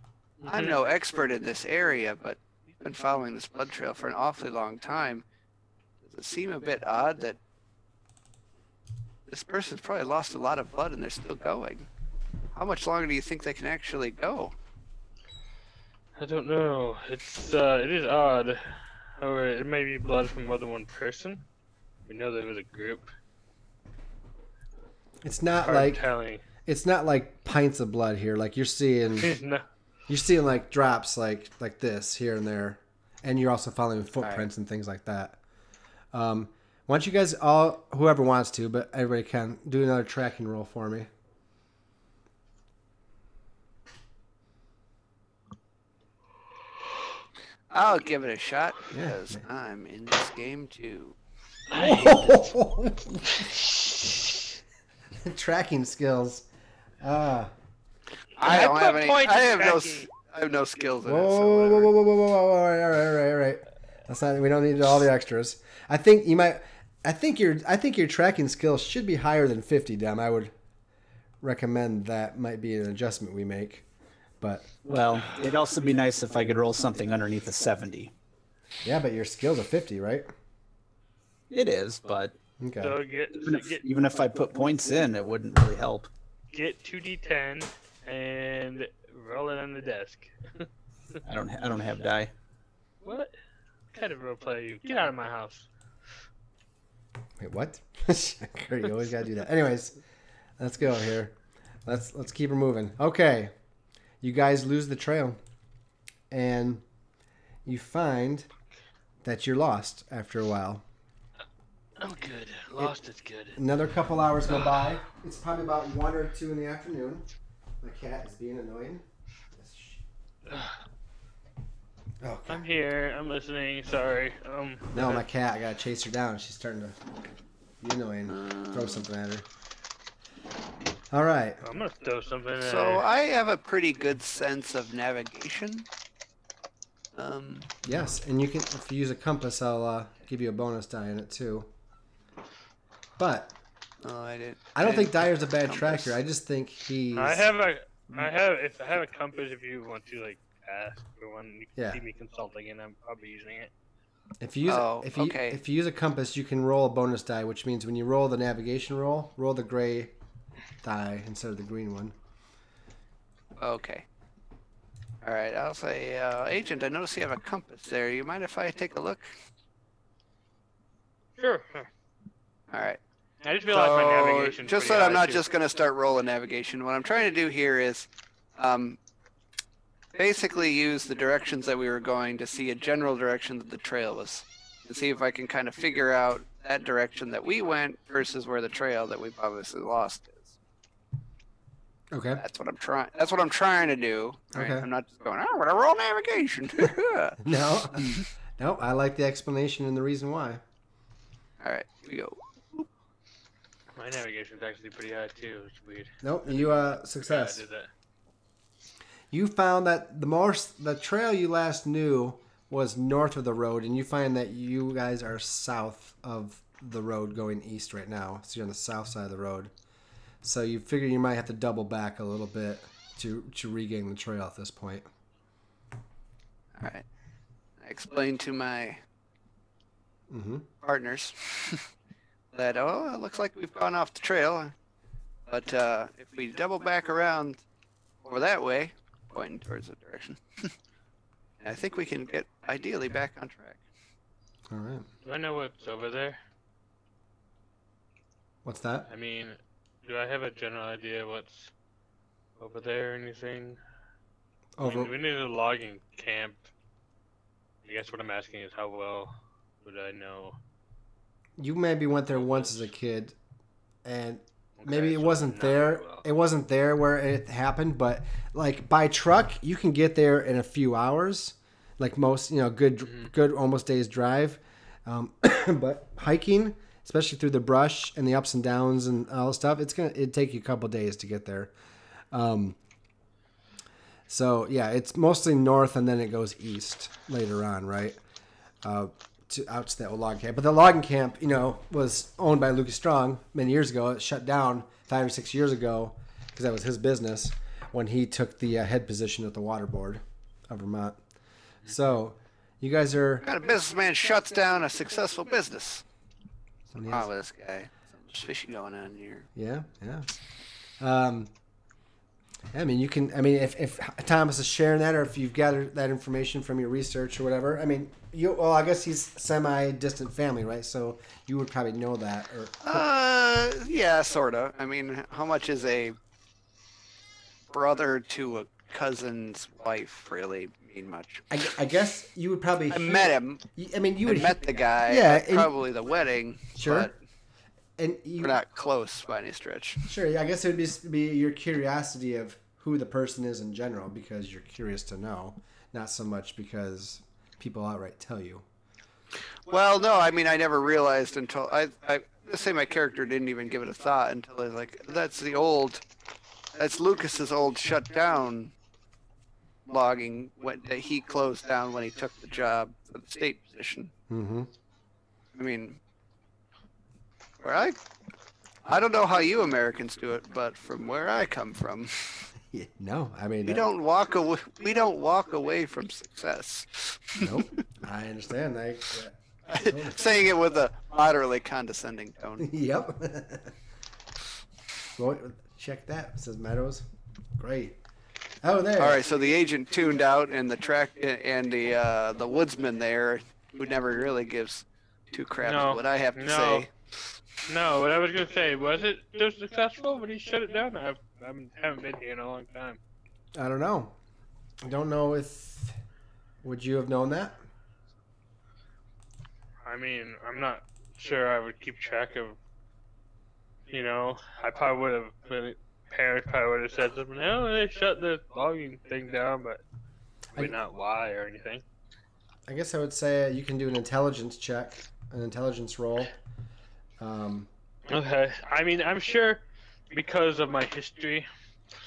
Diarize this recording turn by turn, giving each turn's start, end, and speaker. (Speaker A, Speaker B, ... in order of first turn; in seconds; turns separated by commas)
Speaker A: 0.4-0.8, Speaker B: 0.5-5.2, Speaker B: 6.0-7.4, Speaker B: 9.3-11.9, Speaker B: 12.5-14.6, Speaker A: 16.2-21.4, Speaker A: 22.1-23.1, Speaker C: 25.2-26.1, Speaker A: 25.6-26.4, Speaker C: 26.7-29.3, Speaker A: 29.2-29.6, Speaker C: 30.1-35.4, Speaker C: 36.1-41.1, Speaker B: 47.7-51.2, Speaker C: 48.9-49.4, Speaker C: 51.7-53.5, Speaker A: 51.7-52.3, Speaker C: 55.2-56.5, Speaker C: 57.0-57.5, Speaker A: 58.4-60.1, Speaker B: 58.4-61.9, Speaker C: 61.0-70.5, Speaker C: 71.4-73.8, Speaker C: 74.4-74.7, Speaker D: 74.9-78.1, Speaker C: 78.8-80.3, Speaker D: 81.5-82.3, Speaker C: 82.6-83.0, Speaker A: 82.8-83.8, Speaker D: 83.3-86.1, Speaker A: 86.5-90.7, Speaker D: 91.2-92.3, Speaker A: 93.0-93.3, Speaker A: 93.9-95.7, Speaker C: 97.4-100.0, Speaker C: 100.6-103.5, Speaker C: 104.2-105.4, Speaker C: 106.3-106.8, Speaker C: 107.7-108.5, Speaker C: 109.2-110.8, Speaker A: 112.0-113.6, Speaker C: 113.5-117.3, Speaker C: 117.8-119.0, Speaker C: 119.6-120.0, Speaker C: 122.2-122.6, Speaker A: 122.5-125.2, Speaker C: 124.9-127.0, Speaker C: 127.8-129.4, Speaker B: 128.3-129.0, Speaker C: 131.1-131.6, Speaker A: 131.6-133.1, Speaker B: 132.6-135.9, Speaker B: 137.2-137.7, Speaker C: 137.8-141.7, Speaker C: 143.2-143.6, Speaker B: 144.0-146.2, Speaker C: 144.8-147.5, Speaker A: 147.1-153.7, Speaker C: 151.8-152.0, Speaker C: 154.4-160.1, Speaker B: 154.7-155.6, Speaker C: 160.8-162.2, Speaker B: 163.6-164.1, Speaker B: 165.2-169.3, Speaker A: 171.4-171.9, Speaker B: 172.7-173.0, Speaker A: 173.4-175.4, Speaker B: 173.7-179.0, Speaker B: 180.1-190.5, Speaker C: 192.1-192.4, Speaker B: 192.4-197.4, Speaker C: 194.5-194.9, Speaker C: 197.4-200.6, Speaker B: 197.9-198.3, Speaker B: 201.6-202.9, Speaker A: 204.0-207.9, Speaker C: 206.2-207.6, Speaker C: 209.3-219.7, Speaker C: 220.4-225.1, Speaker B: 226.8-227.1, Speaker B: 227.8-229.0, Speaker C: 230.3-230.7, Speaker B: 230.8-231.8, Speaker B: 232.5-234.7, Speaker B: 235.5-237.6, Speaker B: 238.2-240.4, Speaker B: 241.6-243.8, Speaker C: 244.7-245.1, Speaker A: 245.2-246.4, Speaker C: 248.6-249.1, Speaker A: 249.1-251.7, Speaker A: 252.6-253.8, Speaker C: 254.8-255.1, Speaker A: 254.8-256.7, Speaker A: 257.9-260.6, Speaker C: 261.6-263.4, Speaker A: 262.4-262.9, Speaker C: 264.0-281.7, Speaker A: 264.8-266.2, Speaker C: 282.3-282.8, Speaker C: 284.3-288.2, Speaker C: 288.8-301.2, Speaker C: 301.9-303.5, Speaker B: 303.4-306.1, Speaker C: 306.9-307.3, Speaker B: 307.1-309.5, Speaker C: 309.6-310.3, Speaker C: 311.0-311.5, Speaker C: 312.7-323.0, Speaker B: 322.8-326.2, Speaker B: 327.7-331.6, Speaker C: 331.5-335.7, Speaker B: 332.9-333.6, Speaker B: 334.2-337.2, Speaker C: 336.8-337.1, Speaker C: 338.0-338.6, Speaker B: 338.4-340.1, Speaker C: 340.1-348.7, Speaker B: 349.7-356.0, Speaker B: 356.8-358.7, Speaker B: 359.9-364.1, Speaker C: 364.3-364.7, Speaker B: 365.6-366.0, Speaker B: 367.6-368.0, Speaker B: 368.9-372.5, Speaker C: 372.7-373.9, Speaker B: 373.6-377.7, Speaker C: 377.4-380.2, Speaker B: 379.7-382.7, Speaker C: 382.6-383.7, Speaker C: 385.2-387.1, Speaker C: 387.6-388.0, Speaker C: 388.6-389.2, Speaker B: 389.0-396.9, Speaker A: 395.6-396.9, Speaker A: 397.7-403.0, Speaker C: 403.6-404.2, Speaker C: 404.8-405.9, Speaker C: 406.6-407.6, Speaker A: 409.9-412.6, Speaker A: 413.9-419.8, Speaker A: 420.5-421.8, Speaker C: 422.7-426.3, Speaker C: 427.2-427.7, Speaker A: 428.1-431.5